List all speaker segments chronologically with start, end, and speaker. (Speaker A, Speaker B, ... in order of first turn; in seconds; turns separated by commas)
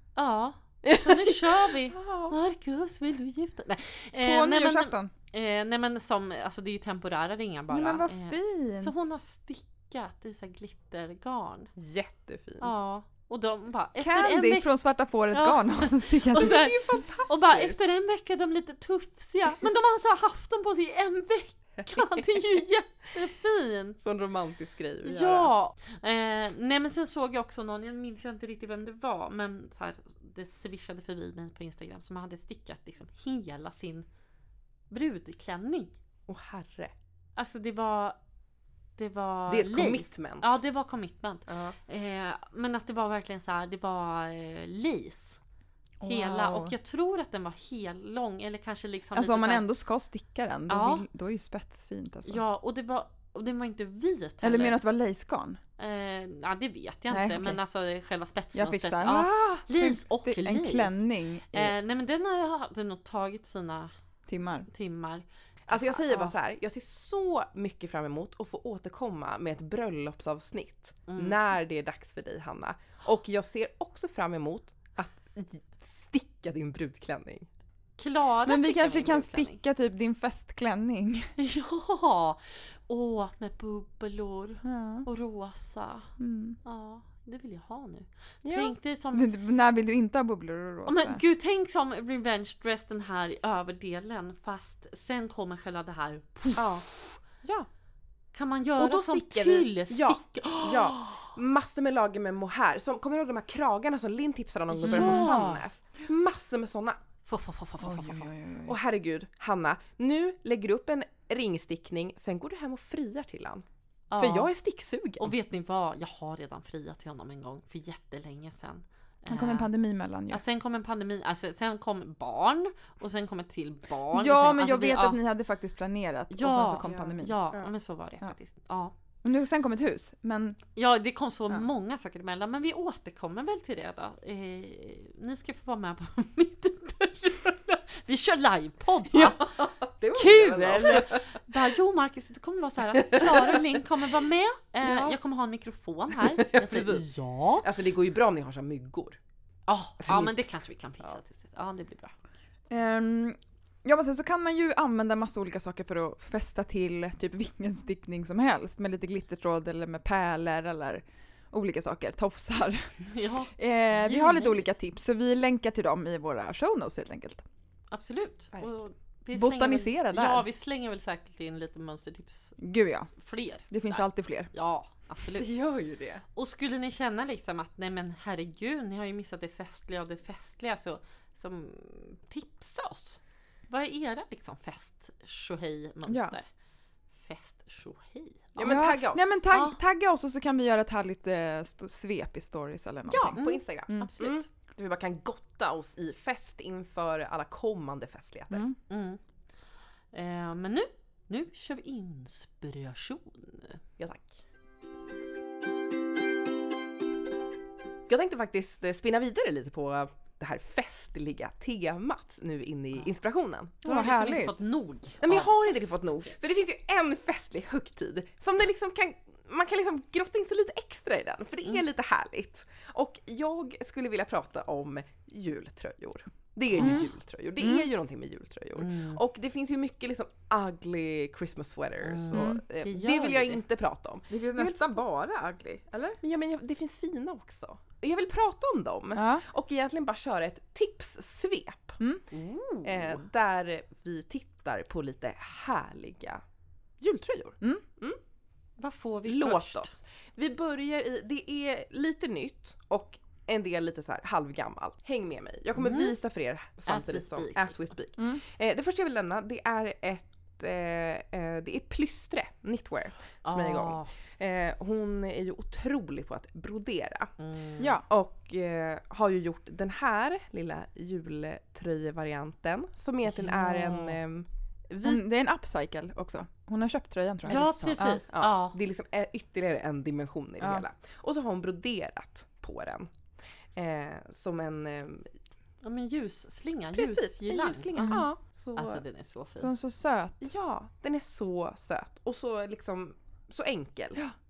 Speaker A: 0.1-11.7, Speaker B: 0.8-2.3, Speaker C: 4.2-5.1, Speaker C: 7.7-8.9, Speaker B: 11.8-12.7, Speaker A: 12.6-14.7, Speaker C: 14.0-16.7, Speaker A: 15.3-24.0, Speaker B: 16.3-17.8, Speaker B: 21.8-22.4, Speaker B: 24.0-25.5, Speaker A: 25.0-34.1, Speaker A: 34.9-35.9, Speaker B: 36.3-36.9, Speaker A: 37.4-38.2, Speaker A: 39.0-45.4, Speaker B: 39.5-40.6, Speaker B: 41.5-41.8, Speaker C: 46.0-46.7, Speaker A: 46.0-49.6, Speaker C: 49.1-52.4, Speaker A: 50.7-51.0, Speaker A: 52.2-54.8, Speaker C: 54.4-55.6, Speaker A: 55.8-63.9, Speaker C: 57.1-57.6, Speaker C: 58.5-61.7, Speaker C: 64.3-64.7, Speaker A: 64.7-66.3, Speaker B: 65.7-77.5, Speaker A: 71.1-71.4, Speaker A: 78.0-79.6, Speaker C: 78.4-81.3, Speaker A: 81.4-86.1, Speaker C: 84.6-85.1, Speaker C: 86.2-86.6, Speaker A: 86.6-89.3, Speaker B: 88.4-88.7, Speaker C: 89.1-91.2, Speaker A: 90.8-97.2, Speaker B: 96.5-96.8, Speaker A: 98.3-101.0, Speaker B: 98.8-107.0, Speaker A: 104.8-105.6, Speaker C: 104.8-105.6, Speaker A: 107.2-108.3, Speaker C: 107.8-108.8, Speaker B: 108.7-113.6, Speaker A: 114.1-114.5, Speaker B: 114.2-115.3, Speaker A: 115.2-119.7, Speaker C: 119.3-120.4, Speaker A: 120.3-125.2, Speaker C: 124.1-127.4, Speaker A: 126.3-128.9, Speaker B: 126.8-127.7, Speaker C: 129.2-130.6, Speaker A: 130.8-139.6, Speaker B: 139.1-141.7, Speaker A: 140.1-147.7, Speaker B: 142.9-143.7, Speaker C: 144.8-145.1, Speaker B: 146.1-147.1, Speaker B: 147.6-149.2, Speaker A: 149.7-152.1, Speaker B: 150.0-150.4, Speaker C: 152.7-162.9, Speaker A: 163.0-164.6, Speaker C: 163.5-167.4, Speaker A: 167.9-172.6, Speaker C: 169.3-170.5, Speaker C: 172.6-173.1, Speaker A: 173.2-175.5, Speaker C: 173.7-174.5, Speaker B: 175.4-176.2, Speaker A: 176.3-186.4, Speaker C: 186.1-186.3, Speaker A: 187.1-188.9, Speaker B: 188.6-189.3, Speaker C: 188.6-194.1, Speaker A: 189.5-189.8, Speaker B: 193.1-198.6, Speaker A: 193.3-194.4, Speaker C: 198.5-198.8, Speaker A: 198.9-199.2, Speaker A: 200.1-203.8, Speaker B: 204.0-204.4, Speaker B: 208.1-213.8, Speaker C: 213.8-214.6, Speaker A: 213.8-215.8, Speaker B: 215.2-234.9, Speaker A: 226.7-227.0, Speaker C: 226.7-227.9, Speaker A: 228.8-229.2, Speaker A: 232.0-233.6, Speaker C: 232.3-232.6, Speaker C: 234.3-236.2, Speaker B: 236.2-242.0, Speaker C: 239.1-239.4, Speaker A: 242.3-243.2, Speaker B: 242.8-246.4, Speaker B: 247.0-248.2, Speaker A: 248.8-249.9, Speaker B: 249.2-267.3, Speaker A: 255.8-256.1, Speaker A: 256.9-257.9, Speaker A: 263.4-264.1, Speaker A: 267.4-267.9, Speaker C: 267.8-268.0, Speaker B: 268.1-275.2, Speaker A: 273.3-274.2, Speaker C: 275.0-278.2, Speaker A: 277.4-278.8, Speaker B: 277.4-283.1, Speaker C: 280.6-280.8, Speaker B: 283.8-285.3, Speaker A: 285.8-289.7, Speaker B: 286.9-289.0, Speaker C: 287.9-288.3, Speaker C: 289.6-290.4, Speaker B: 290.4-294.2